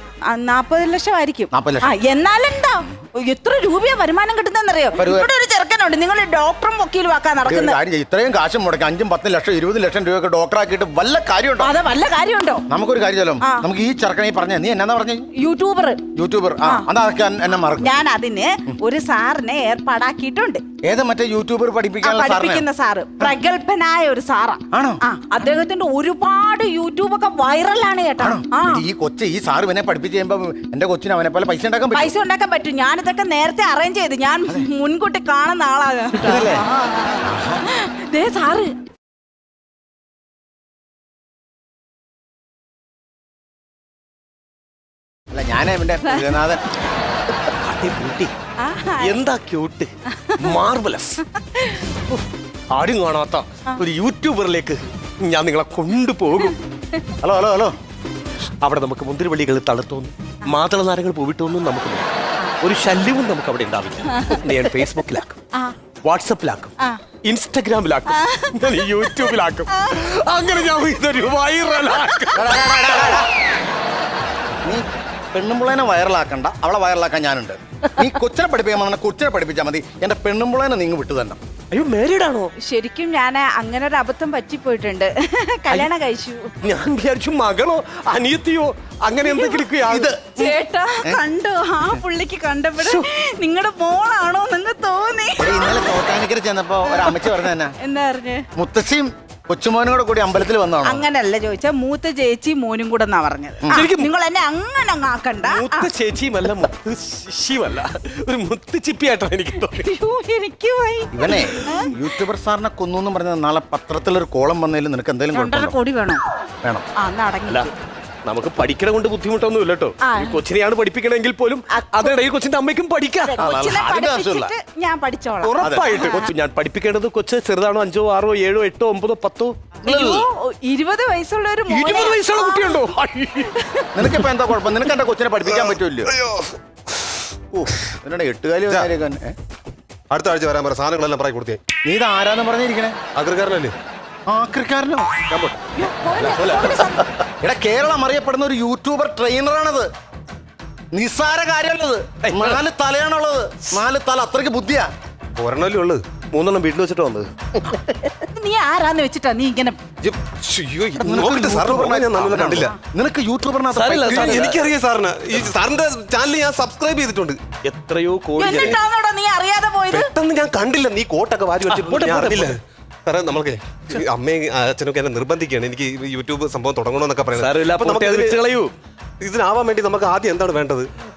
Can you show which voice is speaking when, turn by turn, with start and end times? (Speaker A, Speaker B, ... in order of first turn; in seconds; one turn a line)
Speaker A: 0.2-7.8
Speaker B: 1.5-1.9
Speaker B: 5.0-5.3
Speaker B: 7.4-11.7
Speaker A: 11.6-12.6
Speaker B: 12.7-15.3
Speaker A: 15.3-16.0
Speaker B: 16.1-17.9
Speaker A: 17.8-20.6
Speaker B: 20.8-22.6
Speaker A: 22.0-28.8
Speaker B: 24.7-25.0
Speaker B: 28.2-32.1
Speaker A: 31.9-38.7
Speaker B: 36.1-36.6
Speaker B: 37.2-37.6
Speaker B: 45.3-46.6
Speaker C: 47.6-48.3
Speaker A: 48.6-49.2
Speaker C: 49.0-51.2
Speaker A: 51.4-51.9
Speaker C: 52.8-56.6
Speaker B: 57.2-57.7
Speaker C: 58.6-65.4
Speaker A: 64.1-64.5
Speaker C: 66.0-73.2
Speaker A: 68.1-70.0
Speaker B: 72.3-73.3
Speaker B: 74.6-81.4
Speaker C: 81.7-82.5
Speaker A: 82.6-86.5
Speaker C: 86.6-90.1
Speaker A: 89.2-89.7
Speaker B: 89.8-91.2
Speaker A: 90.3-96.0
Speaker C: 92.8-93.0
Speaker B: 95.4-97.7
Speaker A: 96.9-98.5
Speaker B: 98.5-101.0
Speaker A: 100.8-105.9
Speaker B: 103.6-103.9
Speaker C: 103.7-104.1
Speaker C: 105.4-109.9
Speaker A: 109.8-111.9
Speaker B: 111.1-115.8
Speaker A: 115.3-116.2
Speaker A: 117.0-117.7
Speaker C: 118.2-123.7
Speaker A: 120.0-120.4
Speaker A: 121.7-122.1
Speaker A: 123.2-126.3
Speaker B: 123.4-124.5
Speaker C: 125.4-130.1
Speaker B: 125.6-126.0
Speaker A: 129.8-132.8
Speaker B: 129.8-130.2
Speaker C: 131.7-134.2
Speaker A: 133.4-133.9
Speaker B: 133.9-136.1
Speaker D: 135.4-137.6
Speaker B: 138.0-139.3
Speaker D: 140.1-141.6
Speaker B: 141.8-143.0
Speaker D: 143.1-143.7
Speaker B: 144.3-145.1
Speaker C: 145.3-145.6
Speaker A: 145.7-147.1
Speaker C: 146.2-147.0
Speaker B: 147.4-149.9
Speaker B: 150.9-154.9
Speaker C: 152.2-152.6
Speaker D: 155.3-156.1
Speaker C: 156.3-157.9
Speaker A: 158.2-159.8
Speaker D: 160.0-162.7
Speaker B: 160.9-164.6
Speaker C: 163.7-164.7
Speaker D: 164.1-167.4
Speaker C: 167.6-168.8
Speaker A: 168.4-170.1
Speaker D: 169.9-178.4
Speaker C: 171.7-172.6
Speaker C: 177.3-178.7
Speaker D: 179.2-180.9